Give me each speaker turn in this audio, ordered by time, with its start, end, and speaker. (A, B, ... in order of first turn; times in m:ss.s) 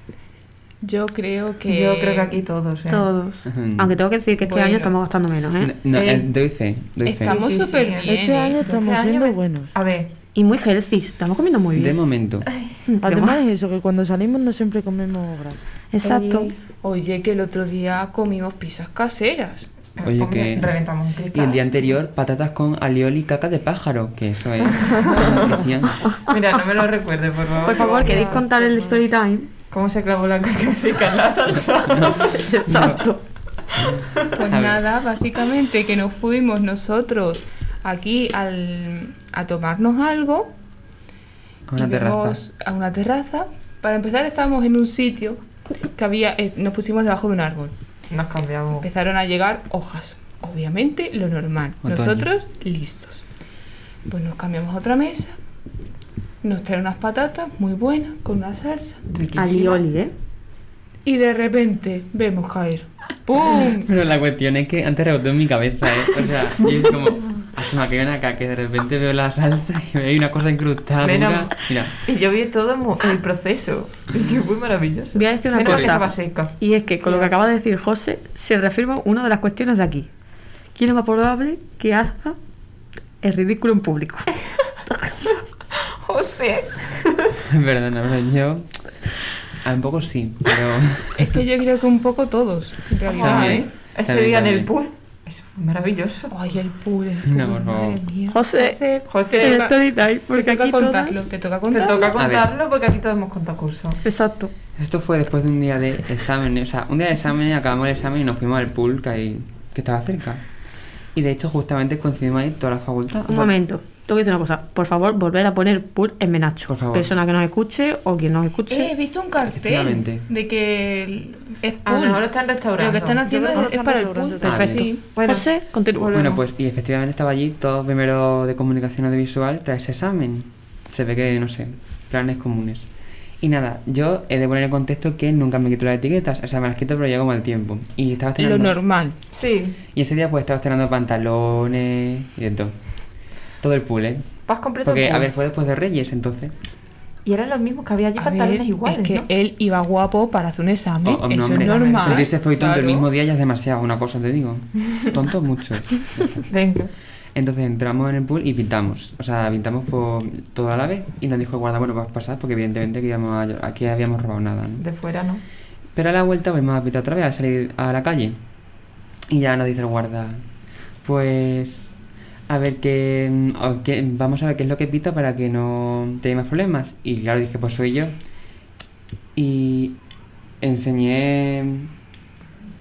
0:00.8-0:02.4 A
0:01.7-0:03.1 B
0:02.9-0:05.7 C
0:03.4-0:04.0 D
0:04.4-0:04.9 A
0:05.6-0:07.4 D
0:06.0-0:06.2 B
0:07.1-0:08.6 A
0:07.1-0:10.1 B
0:08.0-0:09.7 E
0:10.3-0:12.0 C
0:11.8-0:12.5 D
0:12.5-0:12.8 B
0:12.9-0:13.4 C
0:13.0-0:15.6 E
0:15.9-0:16.5 C
0:16.0-0:16.6 B
0:16.8-0:19.7 A
0:20.0-0:21.7 B
0:20.0-0:20.7 D
0:21.3-0:26.2 D
0:24.8-0:25.4 B
0:26.3-0:28.4 B
0:27.6-0:29.5 C
0:27.7-0:29.0 E
0:29.7-0:32.5 B
0:31.9-0:33.0 D
0:32.2-0:33.2 C
0:33.8-0:34.3 B
0:33.8-0:34.8 D
0:34.4-0:40.5 A
0:41.7-0:42.4 D
0:41.8-0:45.4 A
0:45.9-0:47.8 A
0:48.1-0:48.9 B
0:48.8-0:53.2 A
0:51.8-0:52.3 D
0:54.1-0:55.4 A
0:56.4-0:59.1 A
0:59.2-0:59.8 B
0:59.4-1:00.1 C
1:01.0-1:03.9 A
1:03.8-1:11.9 D
1:11.0-1:16.5 B
1:15.2-1:20.1 C
1:15.7-1:16.0 D
1:20.8-1:22.4 C
1:23.2-1:24.4 C
1:25.9-1:27.4 B
1:27.4-1:28.9 D
1:29.6-1:31.4 D
1:31.2-1:33.7 A
1:33.1-1:36.4 B
1:33.2-1:34.7 D
1:36.3-1:39.8 A
1:37.2-1:38.0 D
1:38.3-1:41.2 C
1:39.1-1:39.7 B
1:40.3-1:42.2 A
1:41.7-1:44.0 B
1:42.2-1:42.5 D
1:44.0-1:44.5 C
1:44.8-1:50.4 D
1:51.2-1:53.5 D
1:53.3-1:58.9 C
1:56.7-1:57.1 D
1:58.7-2:05.0 A
1:59.5-2:00.2 D
2:01.8-2:03.4 B
2:03.2-2:04.8 E
2:04.4-2:04.9 D
2:05.1-2:06.4 B
2:05.2-2:06.3 C
2:06.1-2:12.9 D
2:13.4-2:18.8 D
2:18.4-2:19.2 A
2:19.3-2:19.8 B
2:19.9-2:22.8 D
2:23.6-2:24.3 D
2:24.5-2:25.3 B
2:24.8-2:26.5 D
2:27.2-2:29.3 B
2:28.2-2:33.1 A
2:31.0-2:36.5 D
2:31.4-2:32.3 B
2:36.5-2:36.9 B
2:37.3-2:44.8 D
2:44.8-2:45.4 B
2:46.0-2:48.4 D
2:49.3-2:50.4 D
2:51.0-2:52.0 D
2:52.5-2:58.1 D
2:59.4-3:00.0 D
3:00.6-3:01.9 D